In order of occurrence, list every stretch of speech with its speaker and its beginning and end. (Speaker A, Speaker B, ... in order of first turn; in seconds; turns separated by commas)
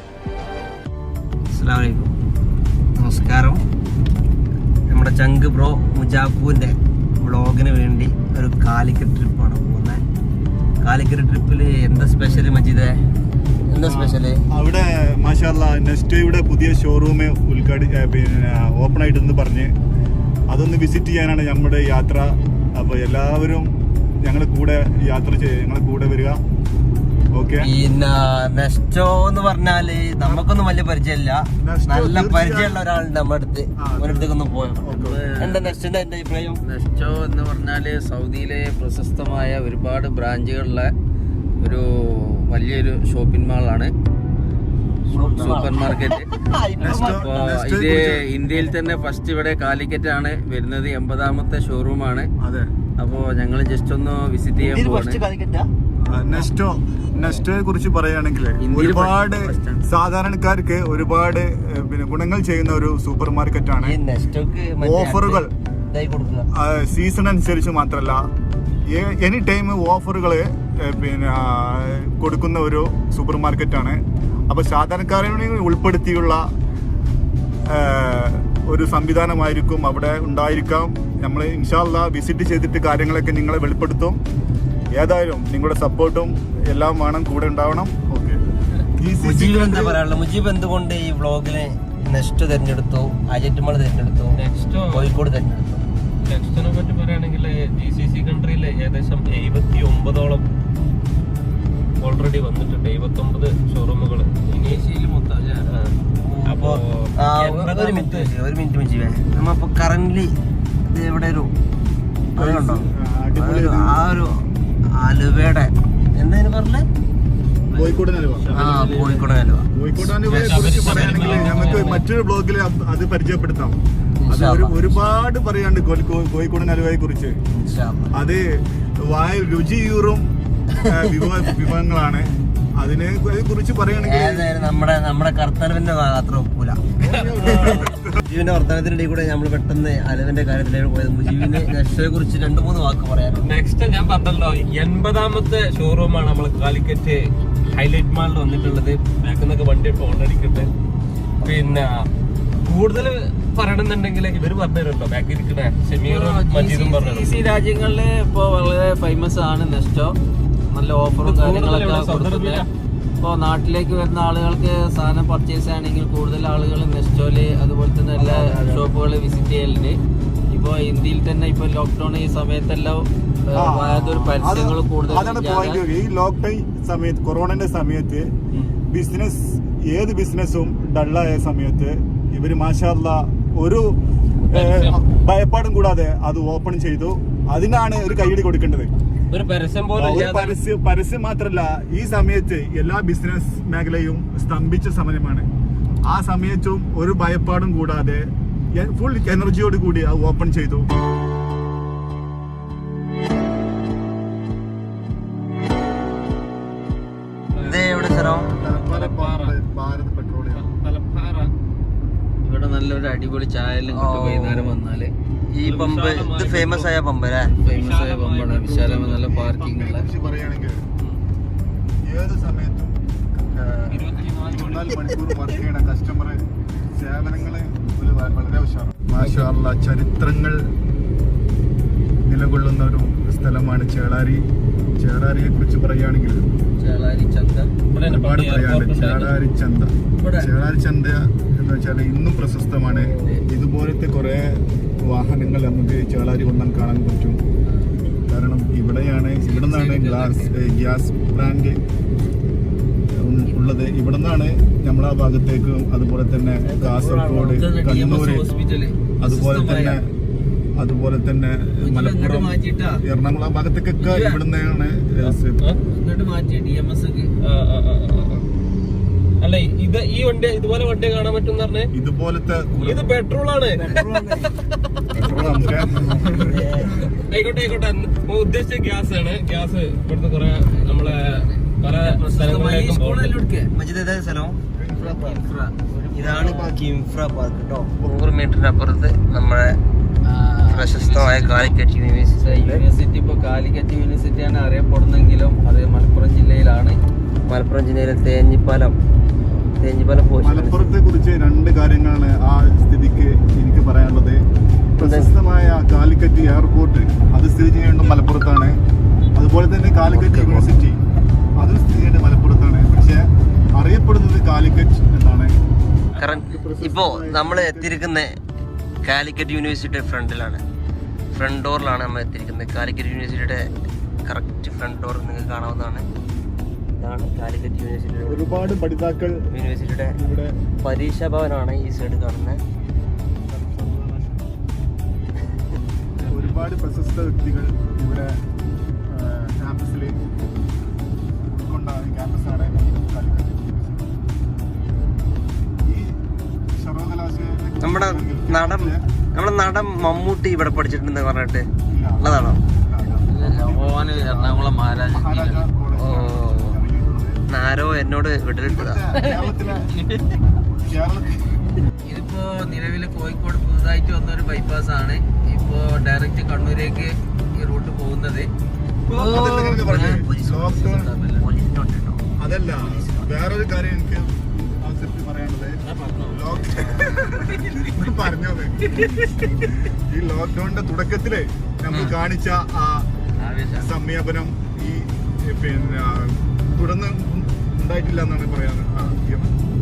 Speaker A: 1.5-2.1, Speaker A: 3.0-3.6, Speaker A: 4.9-10.0, Speaker A: 10.8-13.0, Speaker A: 13.7-14.4, Speaker B: 13.8-19.7, Speaker B: 20.5-26.4, Speaker B: 27.3-27.7, Speaker A: 27.6-36.6, Speaker B: 31.6-32.8, Speaker B: 33.8-35.3, Speaker C: 35.0-35.7, Speaker C: 36.6-40.9, Speaker C: 41.6-43.9, Speaker A: 45.1-47.3, Speaker C: 45.1-46.2, Speaker B: 46.8-48.2, Speaker C: 46.9-52.3, Speaker B: 52.4-52.7, Speaker C: 53.0-55.2, Speaker A: 54.6-55.7, Speaker B: 56.0-64.0, Speaker C: 58.6-59.8, Speaker A: 63.8-66.5, Speaker B: 64.8-65.5, Speaker B: 66.5-68.3, Speaker B: 68.8-76.5, Speaker B: 77.7-84.2, Speaker B: 84.9-88.4, Speaker B: 89.0-90.0, Speaker A: 89.2-94.4, Speaker D: 94.3-95.1, Speaker A: 94.9-95.8, Speaker D: 96.2-100.4, Speaker D: 102.0-104.8, Speaker C: 104.6-105.7, Speaker D: 105.7-108.3, Speaker A: 106.2-111.5, Speaker B: 112.4-114.0, Speaker A: 112.4-114.5, Speaker A: 115.0-116.9, Speaker B: 117.7-118.5, Speaker C: 117.7-119.3, Speaker A: 118.5-119.7, Speaker B: 119.7-127.4, Speaker D: 120.3-122.0, Speaker A: 120.4-121.1, Speaker A: 124.2-125.0, Speaker A: 127.5-128.1, Speaker B: 128.1-134.6, Speaker A: 130.9-131.2, Speaker A: 134.0-143.5, Speaker B: 137.0-138.2, Speaker D: 137.2-137.5, Speaker D: 143.4-150.7, Speaker D: 151.4-152.1, Speaker D: 152.7-157.3, Speaker C: 156.0-160.2, Speaker C: 160.7-162.6, Speaker D: 161.2-162.7, Speaker C: 163.2-170.0, Speaker B: 168.2-168.9, Speaker C: 170.5-175.8, Speaker B: 173.5-178.3, Speaker B: 178.9-184.0, Speaker D: 184.5-185.0, Speaker B: 184.5-188.9, Speaker D: 189.3-190.6, Speaker B: 190.0-195.5, Speaker B: 196.1-200.9, Speaker D: 207.5-209.5, Speaker A: 207.6-208.5, Speaker B: 208.5-210.7, Speaker D: 210.5-211.5, Speaker C: 212.4-215.1, Speaker A: 213.9-214.8, Speaker A: 215.5-217.5, Speaker D: 215.6-216.9, Speaker C: 217.6-220.1, Speaker D: 217.7-219.2, Speaker B: 219.1-220.8, Speaker B: 222.0-230.7, Speaker D: 223.9-225.1, Speaker D: 229.2-229.5, Speaker B: 232.2-236.5, Speaker C: 236.8-237.7, Speaker D: 237.9-239.3, Speaker B: 238.0-247.4, Speaker C: 240.1-240.5, Speaker C: 243.1-243.4, Speaker C: 247.7-247.9, Speaker B: 248.3-251.8, Speaker C: 249.4-250.6, Speaker B: 253.1-258.4, Speaker C: 256.7-260.0, Speaker B: 259.2-260.1, Speaker B: 260.8-265.6, Speaker C: 261.8-263.0, Speaker C: 264.0-264.4, Speaker D: 265.2-265.8, Speaker C: 265.9-267.3, Speaker D: 267.4-268.4, Speaker D: 269.4-271.9, Speaker B: 271.9-273.1, Speaker D: 272.8-274.6, Speaker A: 273.7-274.5, Speaker B: 275.1-277.1, Speaker A: 276.4-277.1, Speaker D: 277.0-283.4, Speaker C: 280.7-283.7, Speaker A: 283.7-284.6, Speaker B: 284.8-285.4, Speaker C: 284.9-286.8, Speaker A: 286.1-289.8, Speaker C: 290.2-291.8, Speaker A: 290.7-292.8, Speaker C: 292.4-297.0, Speaker A: 297.5-298.9, Speaker A: 299.8-300.9, Speaker B: 300.4-304.4, Speaker B: 305.0-308.8, Speaker A: 305.0-305.3, Speaker B: 309.4-311.0, Speaker A: 310.1-310.8, Speaker B: 311.6-315.5, Speaker D: 316.1-316.5, Speaker A: 316.2-318.3, Speaker B: 316.4-318.0, Speaker A: 319.0-320.6, Speaker A: 321.3-323.7, Speaker A: 324.2-326.1, Speaker A: 327.0-328.7, Speaker B: 328.3-329.6, Speaker A: 329.5-330.2, Speaker B: 330.1-330.7, Speaker A: 330.7-332.6, Speaker B: 333.5-334.5, Speaker B: 336.3-338.4, Speaker B: 339.1-340.2, Speaker B: 341.5-344.1, Speaker B: 345.8-346.2, Speaker B: 346.7-349.1, Speaker A: 347.8-351.7, Speaker B: 351.9-357.4, Speaker A: 352.2-352.6, Speaker C: 353.3-355.6, Speaker A: 356.0-356.8, Speaker A: 357.5-359.2, Speaker B: 358.6-359.9, Speaker C: 359.4-360.4, Speaker B: 360.7-361.7, Speaker C: 362.1-368.5, Speaker D: 369.1-369.7, Speaker A: 369.1-370.7, Speaker C: 369.1-369.7, Speaker B: 369.1-371.1, Speaker C: 370.5-371.4, Speaker A: 371.3-372.2, Speaker B: 372.4-379.0, Speaker A: 372.8-373.3, Speaker C: 375.9-377.1, Speaker B: 379.9-383.1, Speaker C: 383.4-383.9, Speaker B: 383.8-389.6